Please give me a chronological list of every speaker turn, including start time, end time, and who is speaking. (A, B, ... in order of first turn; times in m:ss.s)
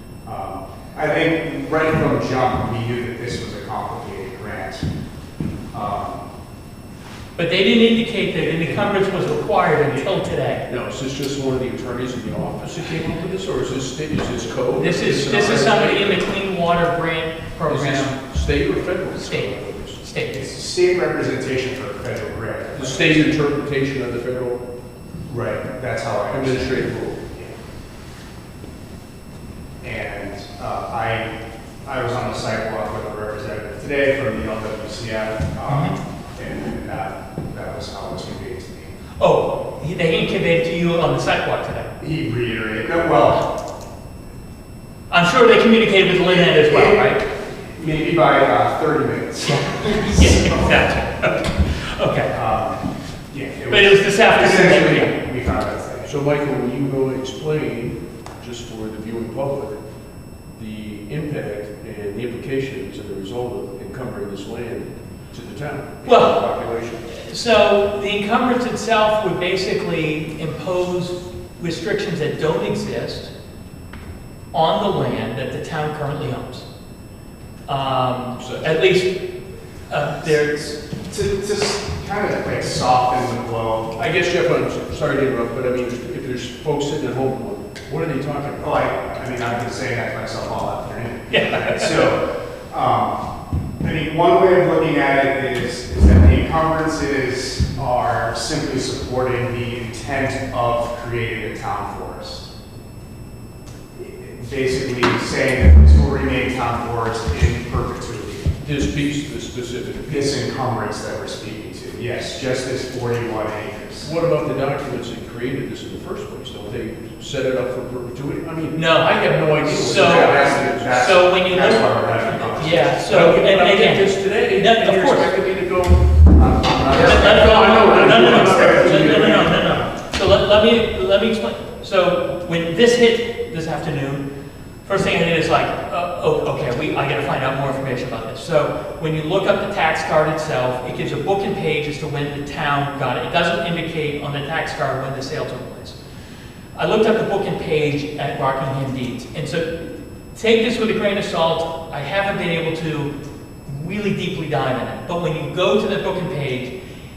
0:00.2-0:04.8 A
0:05.7-0:06.3 A
0:07.4-0:10.6 B
0:08.4-0:09.0 A
0:10.7-0:16.2 C
0:14.8-0:18.2 B
0:17.7-0:20.0 C
0:19.1-0:20.4 B
0:20.3-0:23.3 A
0:22.8-0:24.6 C
0:25.3-0:27.5 A
0:26.3-0:27.2 C
0:29.8-0:31.3 A
0:31.8-0:38.9 A
0:35.7-0:36.0 B
0:39.2-0:41.9 B
0:42.0-0:43.5 A
0:45.1-0:47.2 B
0:46.3-0:50.8 A
0:50.2-0:52.3 B
0:52.3-0:56.1 A
0:53.7-0:55.1 B
0:56.0-0:59.8 C
1:00.6-1:07.1 C
1:06.0-1:06.4 B
1:07.1-1:13.3 B
1:14.5-1:16.7 B
1:17.7-1:19.2 B
1:18.4-1:18.9 C
1:19.9-1:20.8 B
1:20.8-1:24.0 A
1:24.0-1:28.7 C
1:28.6-1:33.2 A
1:31.3-1:32.0 B
1:33.8-1:42.5 A
1:44.0-1:48.5 A
1:48.6-1:50.4 C
1:50.1-1:54.1 A
1:54.0-2:01.0 C
1:58.8-2:05.3 B
1:59.8-2:03.0 A
2:03.0-2:09.5 C
2:06.4-2:09.9 A
2:06.9-2:14.2 B
2:14.8-2:26.0 B
2:26.8-2:33.1 B
2:33.7-2:36.7 B